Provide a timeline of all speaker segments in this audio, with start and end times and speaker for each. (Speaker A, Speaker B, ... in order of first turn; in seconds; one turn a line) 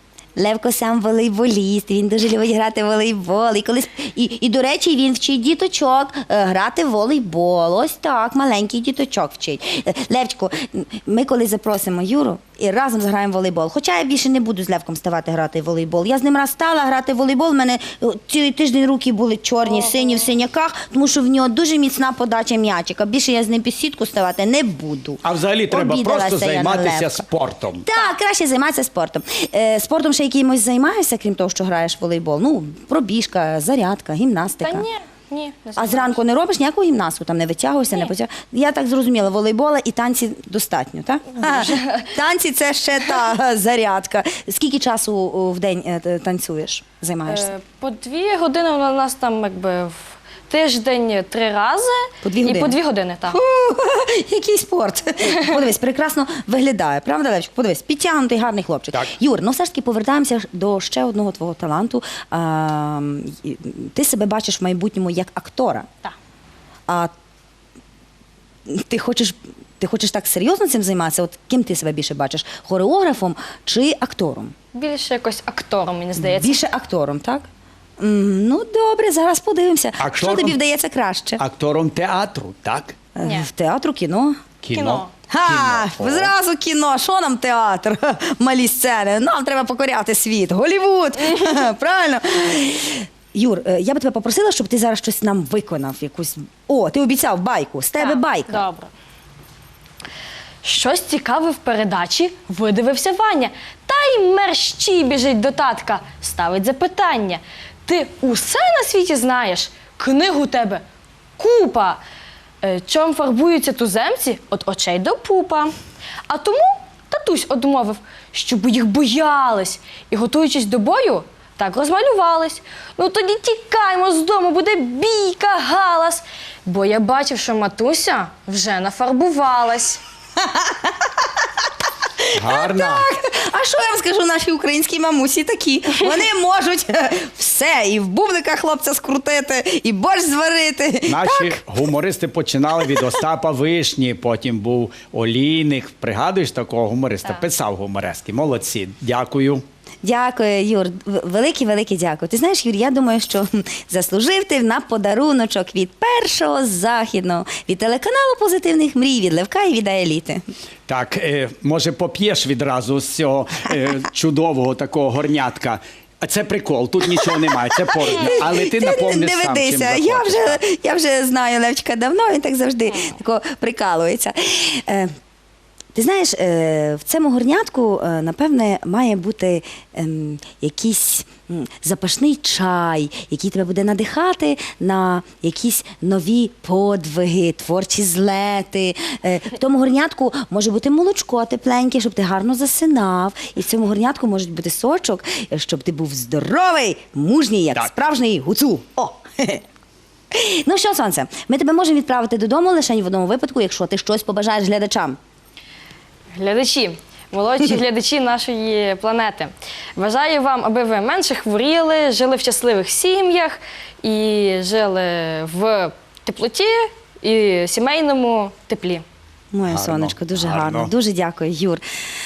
Speaker A: 0.3-27.2
Speaker B: 19.7-20.2
Speaker C: 25.2-27.9
Speaker A: 27.8-34.9
Speaker B: 34.6-36.2
Speaker A: 35.8-47.5
Speaker B: 41.4-42.1
Speaker B: 47.3-53.4
Speaker A: 52.2-52.8
Speaker A: 53.3-65.8
Speaker A: 68.7-74.5
Speaker B: 74.7-76.6
Speaker A: 76.2-77.5
Speaker A: 78.0-81.4
Speaker C: 80.0-80.6
Speaker C: 81.4-82.9
Speaker A: 83.1-84.4
Speaker B: 83.2-83.5
Speaker C: 84.6-86.3
Speaker B: 84.7-85.1
Speaker A: 85.3-98.6
Speaker B: 98.0-98.9
Speaker B: 100.6-110.8
Speaker B: 111.4-112.0
Speaker B: 112.6-115.7
Speaker B: 116.3-130.0
Speaker A: 130.4-131.1
Speaker A: 132.2-141.6
Speaker C: 132.3-133.1
Speaker C: 141.1-149.6
Speaker A: 150.0-160.4
Speaker C: 160.9-170.6
Speaker A: 167.2-175.1
Speaker A: 175.9-199.6
Speaker A: 200.3-205.2
Speaker B: 206.3-219.0
Speaker A: 219.5-221.8
Speaker C: 219.7-220.9